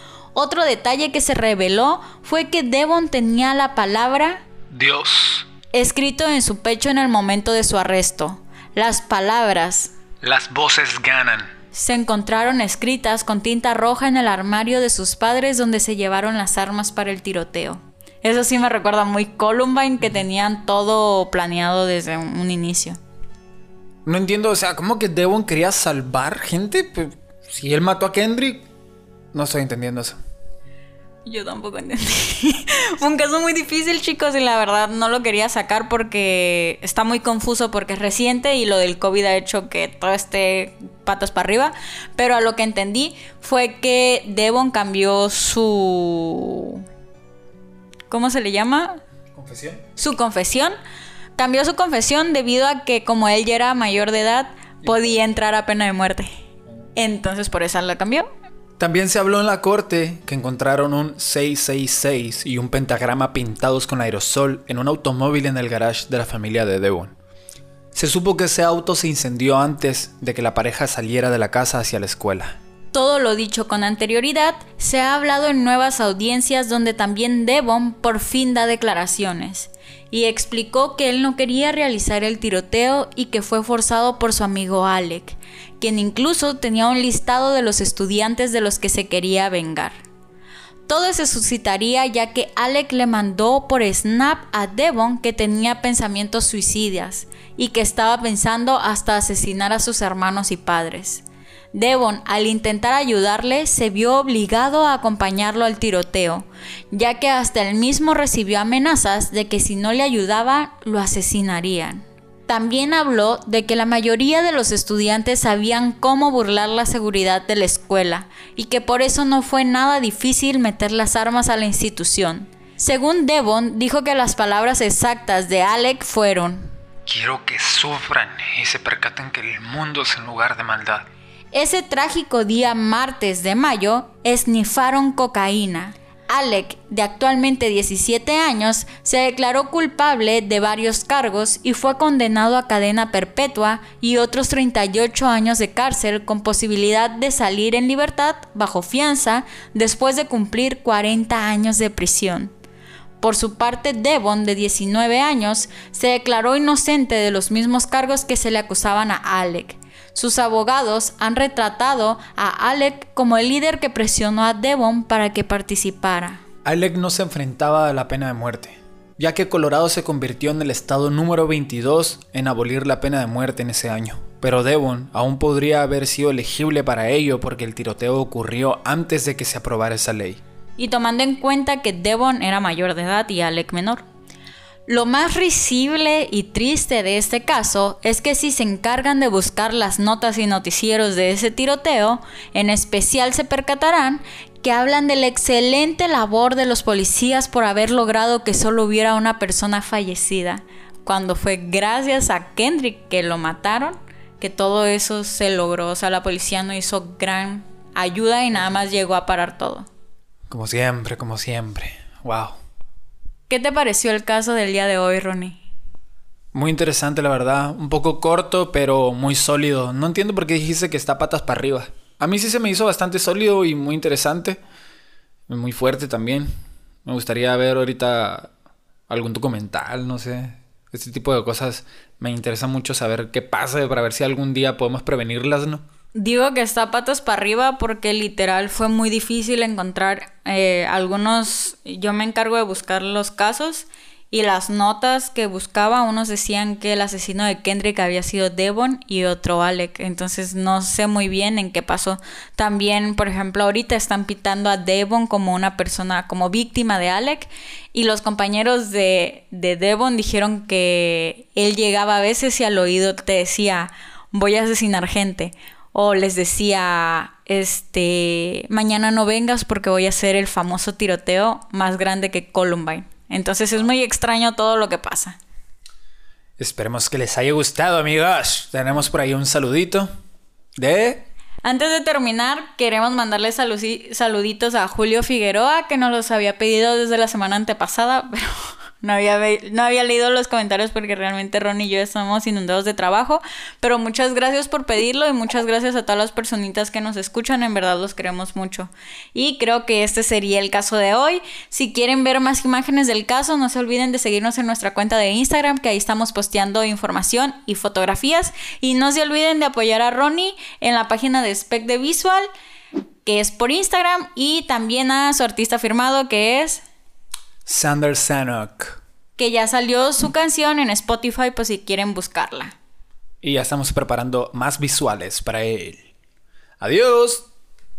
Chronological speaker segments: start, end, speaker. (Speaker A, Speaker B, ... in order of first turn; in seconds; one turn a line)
Speaker A: 0.3-4.4
Speaker B: 4.7-5.5
Speaker A: 5.7-9.9
Speaker B: 10.2-11.5
Speaker A: 11.7-23.0
Speaker B: 24.0-28.6
Speaker B: 29.3-30.2
Speaker A: 31.2-46.8
Speaker A: 48.1-49.0
Speaker B: 49.3-49.8
Speaker A: 50.0-50.8
Speaker A: 51.4-56.3
Speaker A: 57.0-58.3
Speaker B: 58.8-67.1
Speaker B: 67.9-72.6
Speaker A: 72.9-90.0
Speaker A: 90.9-126.7
Speaker B: 127.1-131.0
Speaker A: 131.5-152.5
Speaker A: 153.2-166.4
Speaker B: 166.6-180.4
Speaker A: 180.8-184.0
Speaker A: 184.9-209.9
Speaker B: 210.5-212.6
Speaker A: 213.5-215.6
Speaker B: 216.5-224.6
Speaker B: 225.5-226.5
Speaker B: 227.0-228.5
Speaker B: 229.1-235.8
Speaker A: 236.1-275.4
Speaker B: 276.6-280.1
Speaker B: 280.8-281.2
Speaker A: 281.6-312.4
Speaker A: 313.2-316.8
Speaker B: 317.6-319.0
Speaker A: 319.4-322.8
Speaker B: 323.4-326.1
Speaker B: 326.8-327.4